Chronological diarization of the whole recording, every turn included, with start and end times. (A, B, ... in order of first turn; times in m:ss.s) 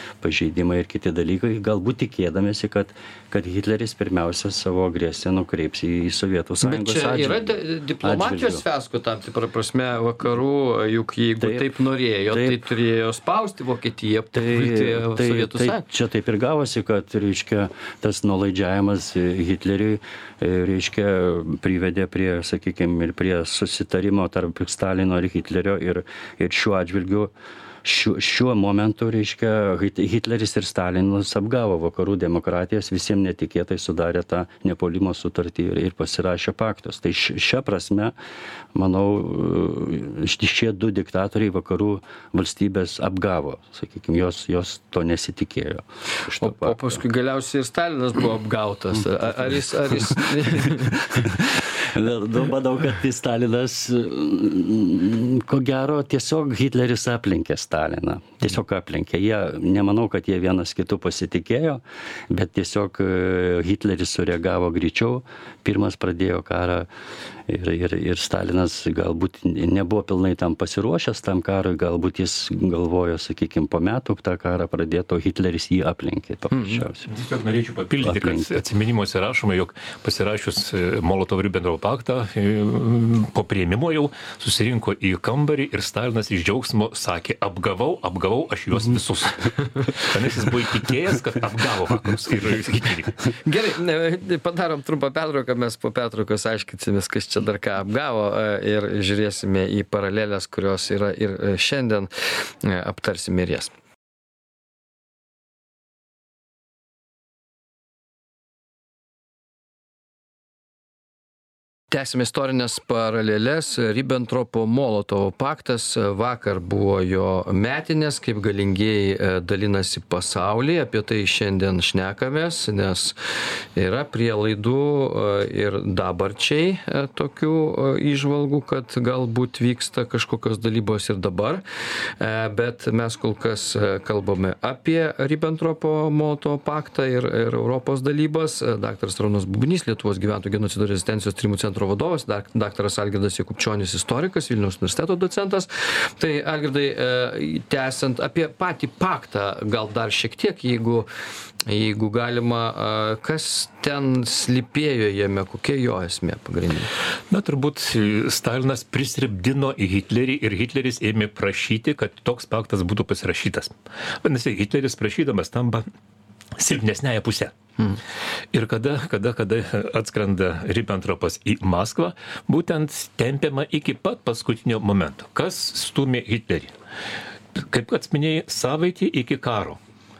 0:00.2-0:08.6 A
0:06.6-0:15.8 B
0:11.4-0:11.6 A
0:12.3-0:12.6 A
0:14.3-0:27.3 A
0:27.8-0:38.1 A
0:38.7-0:47.0 A
0:46.4-0:51.4 B
0:50.7-1:06.9 A
1:07.5-1:17.1 A
1:17.1-1:33.2 C
1:18.0-1:18.6 A
1:33.4-1:43.7 B
1:51.9-2:03.1 B
2:03.8-2:11.6 B
2:12.2-2:31.1 B
2:31.6-2:36.9 B
2:37.3-2:45.8 C
2:46.6-2:48.0 C
2:48.5-2:56.7 C
2:57.5-2:59.8 C